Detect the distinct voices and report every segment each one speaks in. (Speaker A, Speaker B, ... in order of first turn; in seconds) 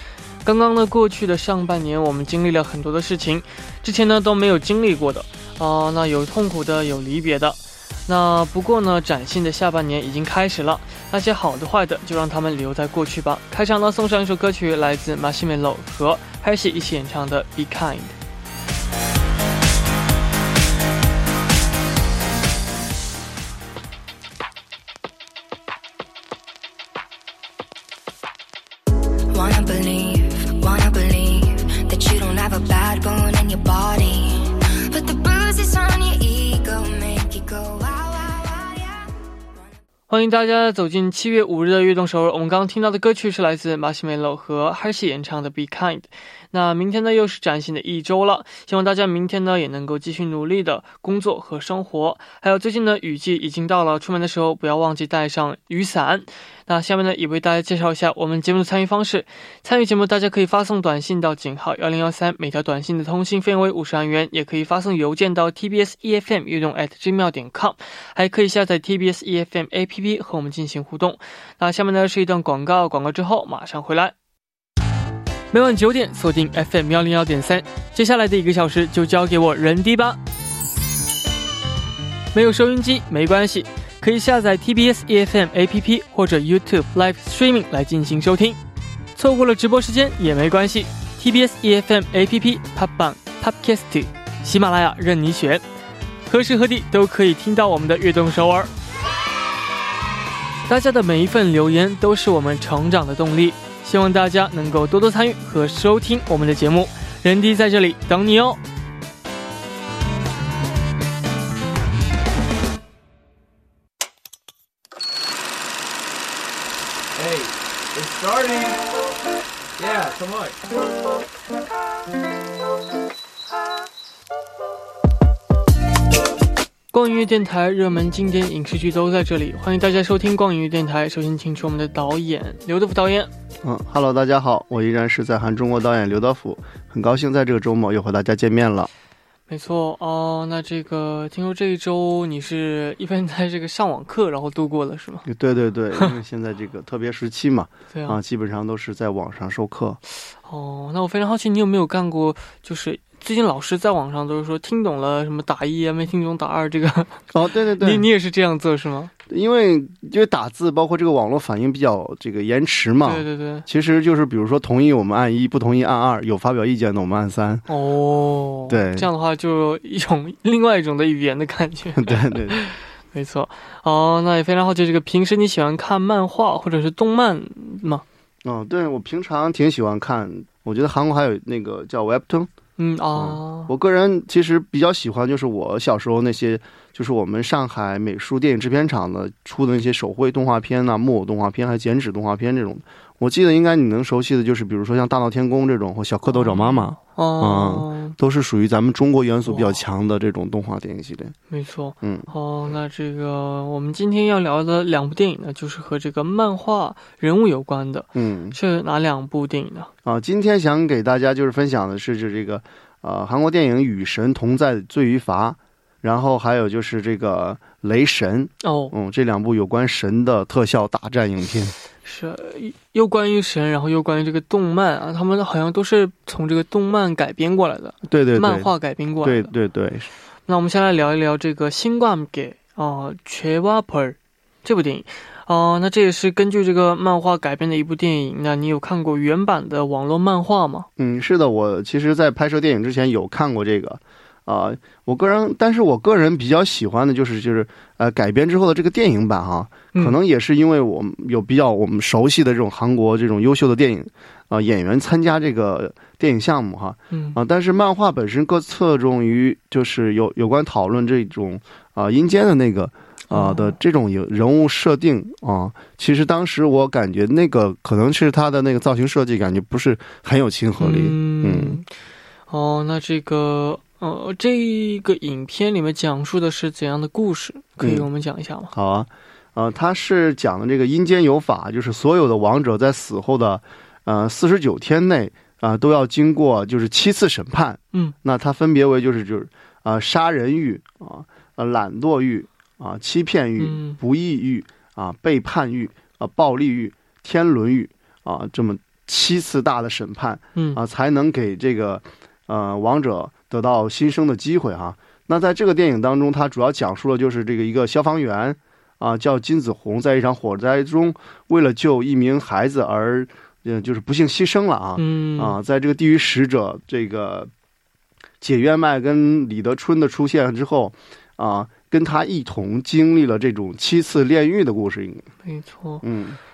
Speaker A: 0.5-18.2, 40.1-74.1, 75.5-80.2, 82.3-88.6, 89.2-95.6, 96.3-98.7, 100.7-108.6, 126.9-133.3, 139.5-145.3, 147.9-148.2, 150.4-157.2, 157.8-159.1, 163.1-163.7, 167.7-178.0, 182.8-183.7, 196.3-198.2, 199.5-199.8, 201.5-209.9, 218.6-218.9, 222.0-229.5, 230.5-240.9, 257.1-257.4, 263.3-263.8, 270.8-271.9, 272.5-278.7, 293.6-294.0, 315.0-315.6, 325.4-326.1
Speaker B: 29.3-39.0
Speaker C: 117.2-118.9, 119.8-120.6
Speaker D: 133.6-138.9, 145.3-150.0, 157.3-158.1, 159.3-167.7, 168.7-169.1, 172.0-172.6, 178.4-182.5, 183.2-201.3, 202.0-202.3, 208.2-208.6, 210.0-221.8, 228.1-230.1, 241.0-271.8, 277.8-278.1, 278.7-317.5, 318.4-325.3, 326.0-326.4